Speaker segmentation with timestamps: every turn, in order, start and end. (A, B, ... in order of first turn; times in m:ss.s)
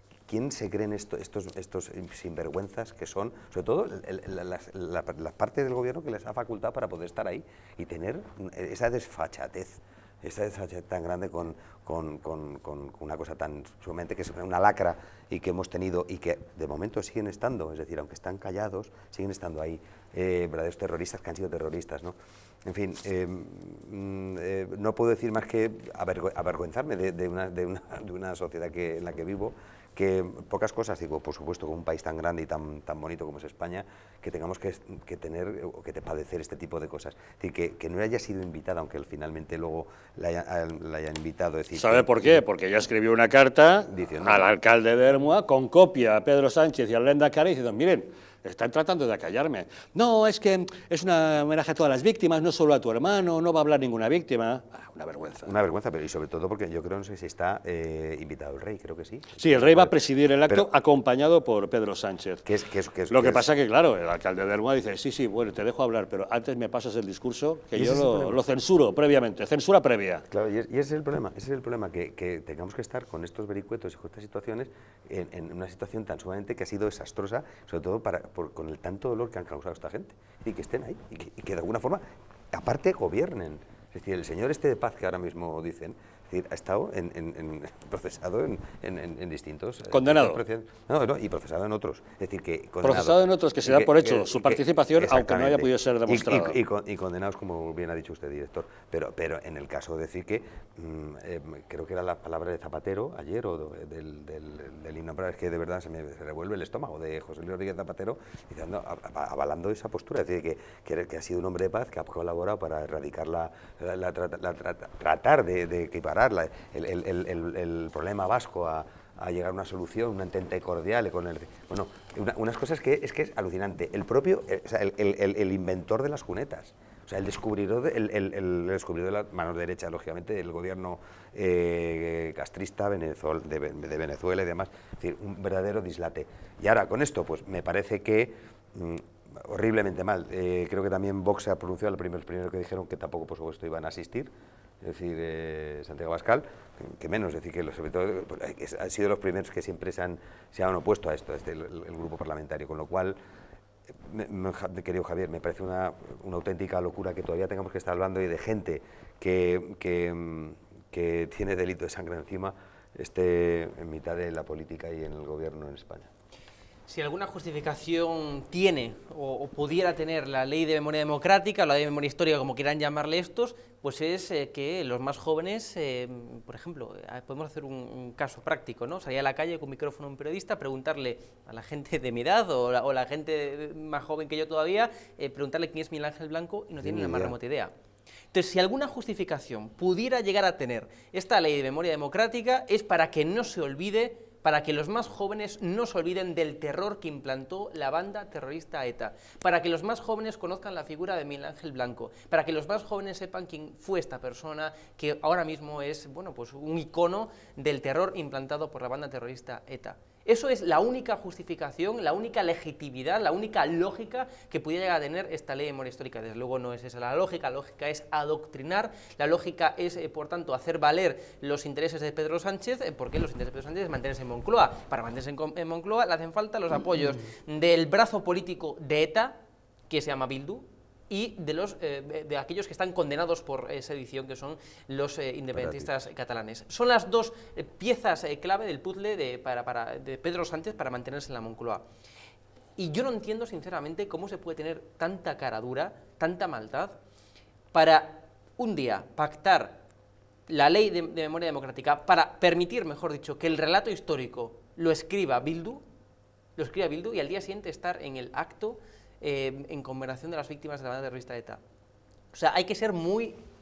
0:00.3-0:42.4 A
0:41.8-0:55.5 B
0:43.9-0:44.5 A
0:55.4-0:59.9 A
0:59.4-1:02.4 B
1:02.4-1:03.4 A
1:03.1-1:10.2 B
1:07.8-1:08.4 A
1:10.3-2:24.3 A
1:29.9-1:30.4 B
1:32.8-1:36.6 B
2:24.8-2:33.2 A
2:33.9-2:46.1 A
2:46.9-3:07.7 C
3:06.8-3:07.4 A
3:08.3-3:49.4 C
3:49.9-4:01.8 C
3:55.5-3:55.9 A
4:02.8-4:07.0 C
4:07.7-4:09.8 C
4:10.5-4:15.8 C
4:16.6-4:21.6 C
4:22.3-4:23.4 C